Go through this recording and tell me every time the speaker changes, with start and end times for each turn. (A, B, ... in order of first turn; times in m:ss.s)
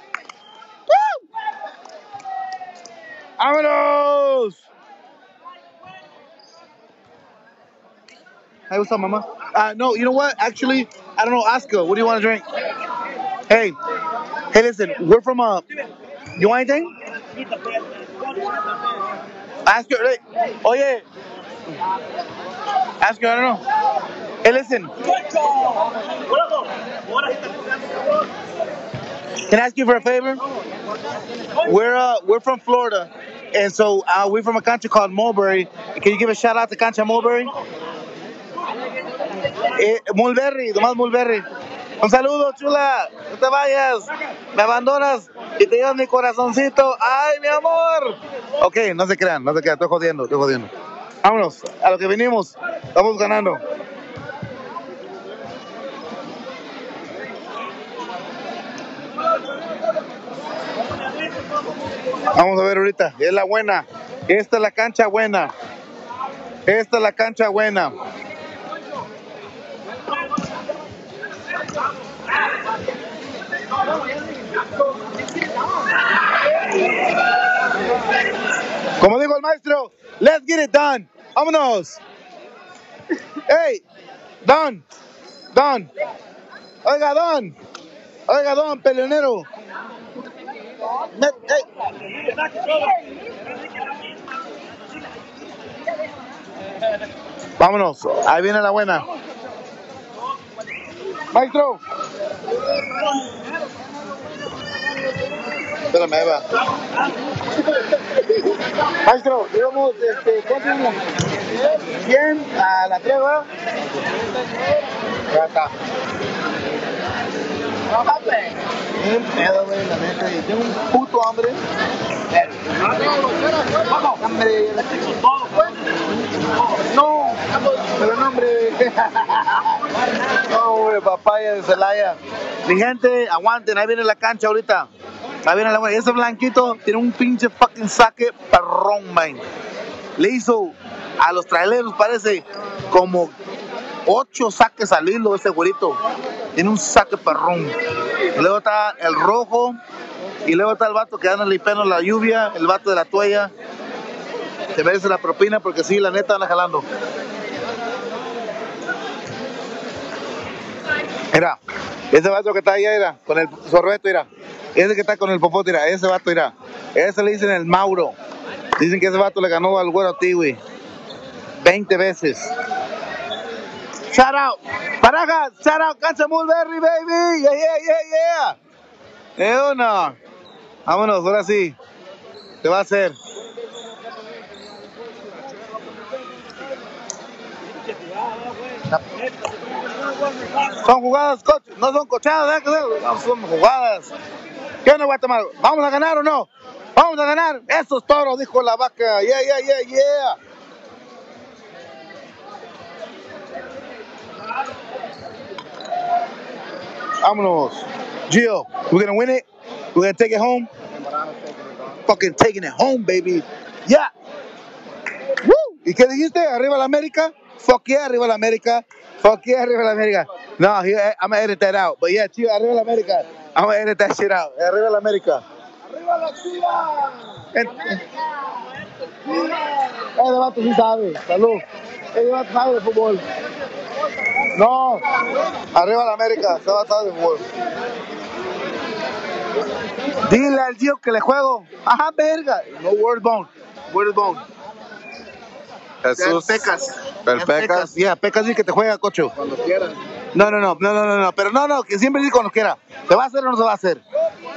0:00.9-0:01.2 A
0:03.4-0:04.6 A
0:08.7-0:12.4 A
0:13.5-0:13.7 A
0:14.5-0:15.6 A
0:16.4-0:16.9 A
0:19.6-0:21.0 A
0:23.0-0:23.6 A
0:24.4-0:24.9 A
0:29.5-0:30.4 A
0:31.6-0:37.5 A
0:39.7-0:41.4 A
0:42.0-0:50.7 A
0:51.2-0:53.6 A
1:02.3-1:05.5 A
1:06.7-1:07.9 A
1:19.0-1:22.0 A
1:23.5-1:23.8 A
1:24.4-1:24.8 A
1:25.5-1:25.9 A
1:26.8-1:27.5 A
1:28.3-1:29.4 A
1:31.1-1:31.6 A
1:37.6-1:39.0 A
1:41.3-1:41.8 A
1:45.9-1:46.4 A
1:49.0-1:51.0 A
1:51.9-1:53.4 A
1:55.3-1:55.7 A
1:57.9-1:58.6 B
1:59.0-2:01.6 A
2:02.3-2:02.6 A
2:02.9-2:04.1 B
2:04.1-2:04.9 A
2:05.0-2:05.6 B
2:06.9-2:09.7 A
2:10.5-2:14.9 A
2:15.4-2:19.4 A
2:20.2-2:23.3 A
2:24.0-2:26.0 A
2:26.6-2:27.7 A
2:28.3-2:29.8 A
2:30.4-2:33.5 A
2:34.7-2:36.8 A
2:42.1-2:48.1 A
2:48.8-2:50.6 A
2:51.6-2:52.5 A
2:54.1-2:58.6 A
2:59.4-3:00.2 A
3:00.8-3:01.7 A
3:02.6-3:03.2 A
3:10.8-3:14.1 A
3:14.8-3:20.4 A
3:27.2-3:30.7 A
3:31.0-3:32.0 B
3:32.1-3:34.1 A
3:35.4-3:45.4 A
3:45.9-3:47.3 B
3:47.5-3:48.0 A
3:50.1-3:51.6 A
3:52.1-3:53.2 A
3:54.5-3:55.0 A
3:55.7-3:57.4 A
4:00.3-4:04.4 A
4:06.0-4:09.3 A
4:06.4-4:06.6 B
4:09.4-4:10.0 B
4:10.3-4:14.0 A